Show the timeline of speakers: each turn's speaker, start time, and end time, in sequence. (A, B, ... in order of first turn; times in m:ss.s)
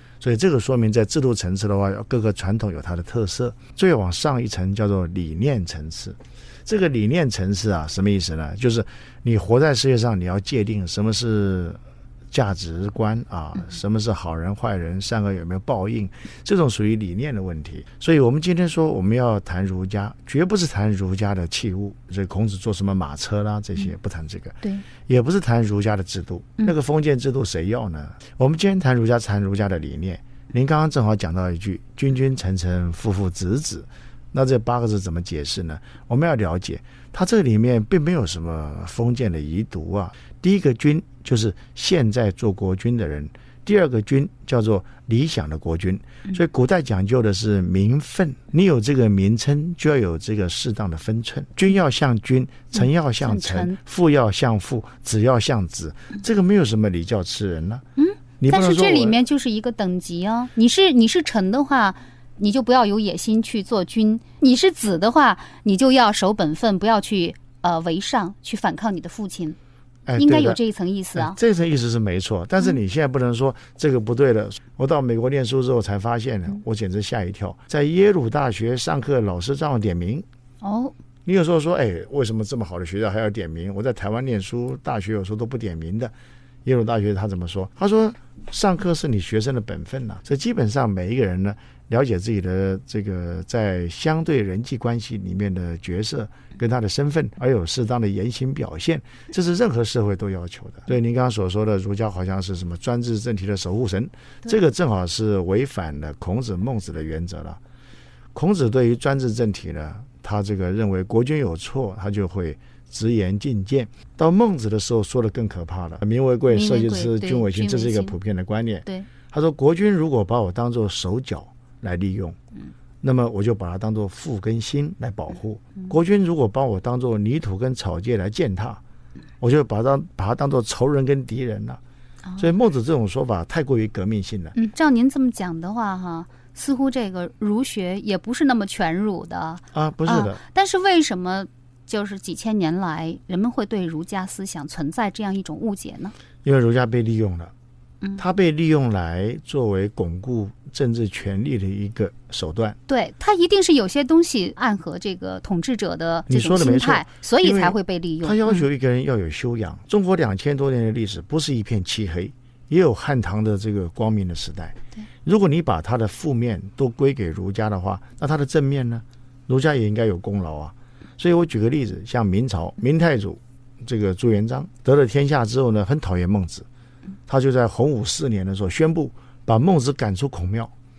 0:00.2-0:11.8 A
0:12.3-0:57.8 A
0:52.8-0:53.8 B
0:58.0-1:09.6 B
0:58.4-0:59.2 A
1:10.1-1:10.6 A
1:10.2-1:11.4 B
1:11.1-1:20.2 A
1:20.6-1:21.0 B
1:21.2-1:26.1 A
1:26.6-1:47.6 A
1:48.3-2:02.4 A
1:56.5-1:58.1 B
2:03.0-2:08.8 A
2:09.4-2:11.8 A
2:12.4-2:14.6 A
2:14.5-2:26.1 B
2:19.7-2:20.4 A
2:26.4-2:27.5 A
2:28.2-2:32.8 A
2:32.9-2:38.6 B
2:36.3-2:56.7 A
2:57.3-3:00.7 A